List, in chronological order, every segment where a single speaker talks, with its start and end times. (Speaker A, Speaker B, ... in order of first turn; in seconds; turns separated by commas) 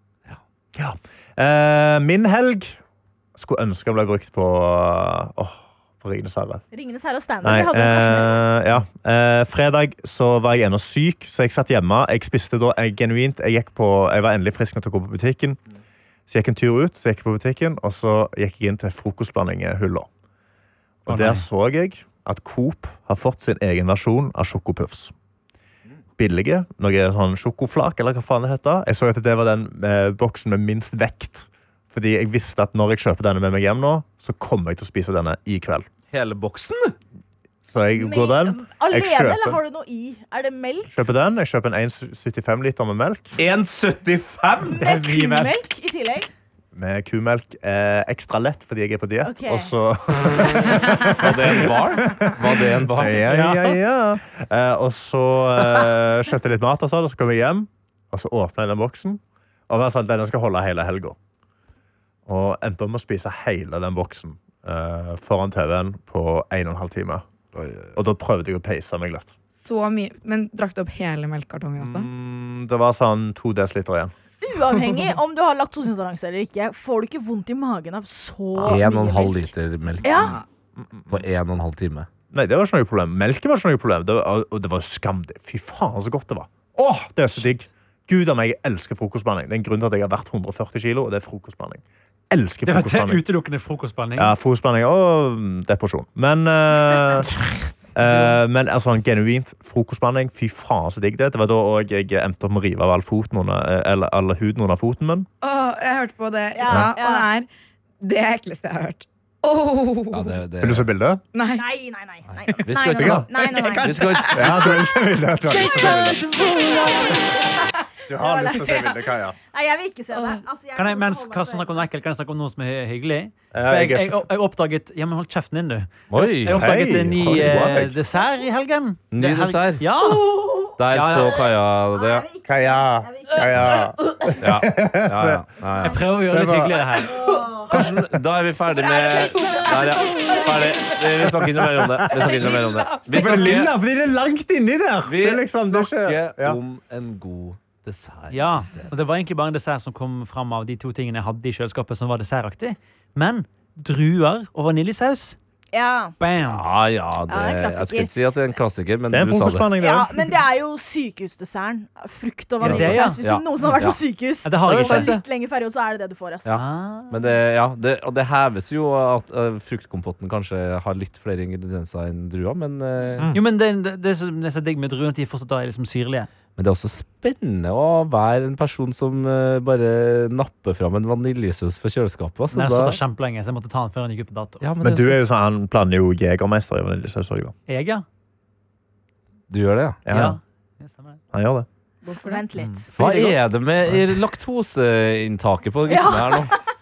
Speaker A: 0.8-2.8, Speaker A: 3.4-6.6, Speaker B: 6.7-8.4, Speaker A: 7.4-15.6, Speaker A: 16.3-20.1, Speaker A: 21.1-25.1, Speaker C: 21.1-21.4, Speaker A: 26.2-35.9, Speaker D: 36.1-37.0, Speaker A: 37.7-39.6, Speaker B: 38.0-41.0, Speaker A: 40.9-43.4, Speaker D: 43.4-44.9, Speaker B: 44.7-46.3, Speaker C: 44.8-45.5, Speaker A: 46.7-61.2, Speaker B: 49.2-49.7, Speaker D: 51.2-53.4, Speaker C: 53.3-53.7, Speaker A: 62.3-67.3, Speaker D: 67.5-68.0, Speaker A: 68.0-69.3, Speaker E: 69.6-72.1, Speaker A: 71.8-74.1, Speaker B: 74.4-79.5, Speaker D: 78.6-80.4, Speaker B: 80.0-80.4, Speaker A: 80.8-81.2, Speaker D: 81.1-82.1, Speaker A: 82.3-93.2, Speaker C: 92.7-94.3, Speaker A: 94.2-97.3, Speaker A: 98.0-105.3, Speaker E: 105.4-107.5, Speaker B: 106.5-107.3, Speaker A: 106.7-106.9, Speaker E: 108.0-110.4, Speaker D: 110.1-110.9, Speaker A: 110.6-111.2, Speaker E: 111.3-111.7, Speaker B: 111.5-114.5, Speaker D: 112.6-113.3, Speaker A: 113.0-113.3, Speaker E: 113.4-114.8, Speaker D: 113.8-114.7, Speaker A: 114.3-116.2, Speaker E: 115.5-117.1, Speaker B: 115.5-121.9, Speaker A: 118.1-119.4, Speaker C: 120.8-131.4, Speaker A: 123.5-124.2, Speaker D: 126.1-126.7, Speaker A: 126.5-128.0, Speaker D: 129.1-129.9, Speaker B: 130.0-130.8, Speaker D: 130.8-132.3, Speaker B: 131.3-134.4, Speaker A: 132.4-135.5, Speaker D: 134.4-136.0, Speaker C: 135.8-137.2, Speaker A: 136.2-136.9, Speaker B: 137.1-137.8, Speaker D: 137.7-143.7, Speaker A: 137.7-138.2, Speaker B: 138.7-141.0, Speaker E: 139.2-139.7, Speaker A: 141.2-142.5, Speaker B: 142.2-142.6, Speaker A: 143.1-146.6, Speaker C: 143.2-143.6, Speaker D: 145.1-148.9, Speaker C: 148.3-155.4, Speaker B: 155.7-156.2, Speaker C: 156.2-156.7, Speaker D: 156.5-159.7, Speaker B: 157.3-158.1, Speaker A: 159.1-160.1, Speaker B: 159.8-166.6, Speaker C: 162.6-163.2, Speaker D: 162.6-164.0, Speaker C: 164.4-165.2, Speaker D: 164.7-165.2, Speaker D: 166.4-173.3, Speaker C: 166.5-167.2, Speaker C: 173.3-176.3, Speaker D: 176.6-183.0, Speaker C: 182.5-184.6, Speaker D: 184.6-185.2, Speaker A: 184.8-187.5, Speaker C: 187.7-188.1, Speaker D: 189.5-190.0, Speaker A: 190.1-190.4, Speaker C: 190.1-191.2, Speaker A: 191.3-191.7, Speaker B: 192.1-193.3, Speaker E: 192.1-192.4, Speaker D: 193.0-196.6, Speaker B: 195.9-196.6